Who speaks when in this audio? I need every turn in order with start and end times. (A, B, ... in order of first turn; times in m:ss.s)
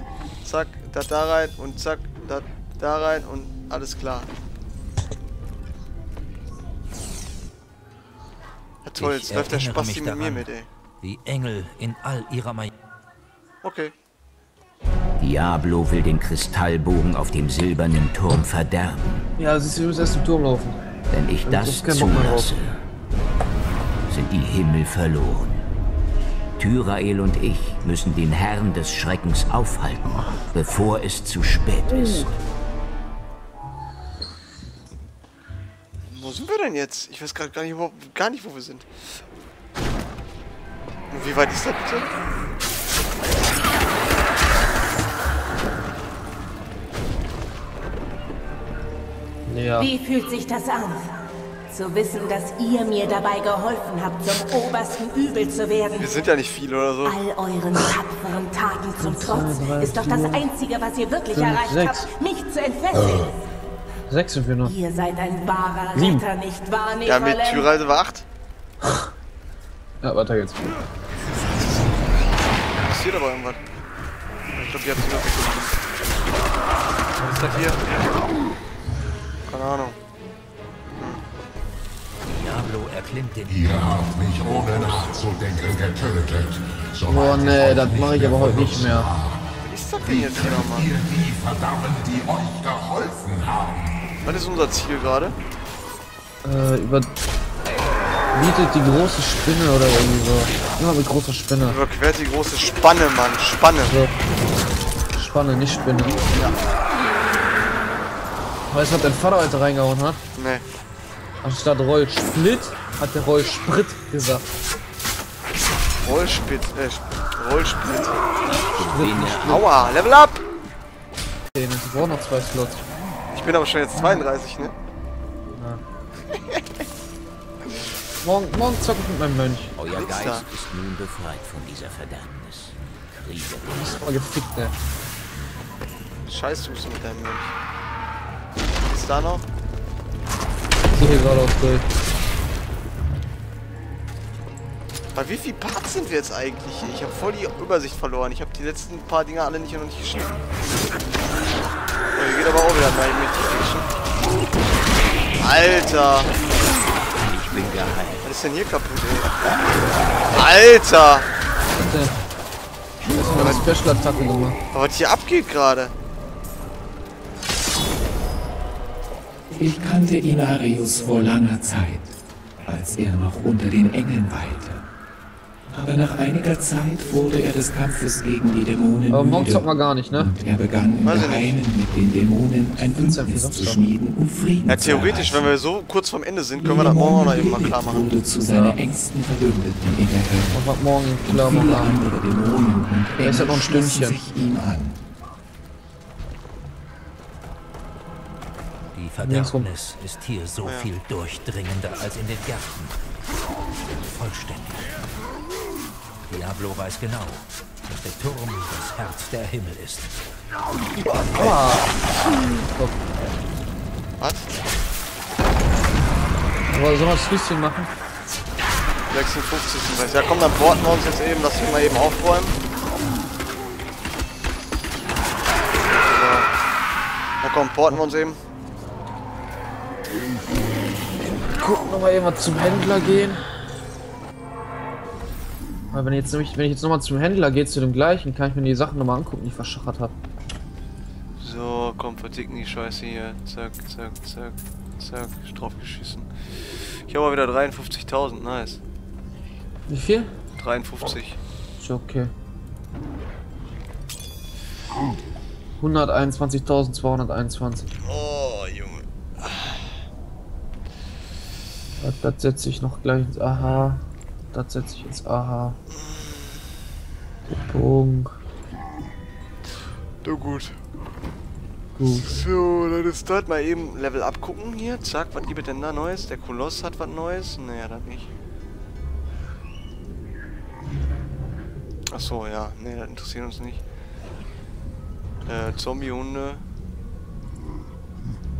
0:00.4-0:04.3 A
0:08.8-0:10.7 A
0:09.0-0:10.5 B
0:11.0-0:12.7 B
0:13.6-0:13.9 A
0:15.2-0:19.2 C
0:19.4-0:20.8 D
0:21.1-0:22.7 C
0:21.4-0:22.5 D
0:24.1-0:25.6 C
0:26.6-0:32.2 C
0:31.9-0:32.3 D
0:36.1-0:38.9 A
0:41.1-0:42.1 A
0:49.5-0:49.9 D
0:49.8-0:56.1 E
0:56.0-0:57.2 A
0:57.0-1:03.2 E
0:59.0-1:00.5 D
1:01.3-1:02.1 D
1:04.1-1:04.7 D
1:04.6-1:07.7 E
1:05.9-1:06.2 D
1:07.0-1:08.2 A
1:10.0-1:10.6 D
1:12.8-1:13.6 A
1:14.6-1:15.7 A
1:17.2-1:17.8 A
1:19.5-1:20.0 A
1:22.2-1:25.1 B
1:23.5-1:29.4 F
1:27.0-1:29.1 D
1:29.6-1:31.0 A
1:30.0-1:33.8 F
1:34.2-1:35.4 A
1:36.4-1:37.1 D
1:38.3-1:41.8 D
1:41.6-1:43.9 A
1:43.9-1:44.1 D
1:45.1-1:46.2 D
1:48.7-1:50.2 D
1:50.4-1:50.6 A
1:51.4-1:54.4 D
1:56.0-1:58.2 A
1:58.7-2:00.0 C
1:58.9-1:59.6 D
1:59.4-2:00.4 A
2:01.5-2:02.8 D
2:03.3-2:04.7 A
2:05.5-2:05.8 D
2:08.2-2:09.7 D
2:09.8-2:14.0 C
2:09.9-2:10.5 A
2:13.7-2:14.7 D
2:16.3-2:17.5 A
2:18.8-2:19.4 A
2:20.9-2:21.8 D
2:25.1-2:30.4 A
2:32.1-2:33.9 A
2:35.4-2:36.3 A
2:37.2-2:38.2 C
2:38.2-2:39.3 A
2:40.3-2:41.3 A
2:41.8-2:42.1 D
2:43.1-2:44.6 D
2:43.3-2:43.6 A
2:44.7-2:45.9 A
2:49.5-2:52.1 G
2:52.6-2:54.8 G
2:55.7-3:05.5 G
2:59.1-3:00.3 D
3:01.0-3:01.6 A
3:02.9-3:03.9 D
3:04.6-3:08.1 A
3:06.6-3:10.6 G
3:08.5-3:08.8 D
3:10.5-3:12.0 D
3:11.2-3:15.0 G
3:13.2-3:14.2 D
3:18.9-3:22.9 B
3:19.2-3:19.7 D
3:24.0-3:24.9 B
3:26.3-3:30.1 B
3:31.1-3:33.0 D
3:34.2-3:34.4 A
3:36.7-3:37.9 D
3:39.1-3:42.6 A
3:45.9-3:46.5 A
3:47.4-3:48.4 A
3:51.4-3:53.4 D
3:55.9-4:00.1 D
4:01.4-4:08.8 A
4:09.9-4:10.3 D
4:10.6-4:11.4 A
4:11.8-4:12.3 D
4:15.8-4:17.9 D
4:18.0-4:19.8 A
4:22.0-4:24.0 D
4:24.5-4:25.8 D
4:26.0-4:26.6 A
4:27.5-4:28.3 D
4:30.2-4:30.8 A
4:32.0-4:32.3 D
4:32.1-4:38.3 A
4:42.1-4:43.8 A
4:45.4-4:46.6 A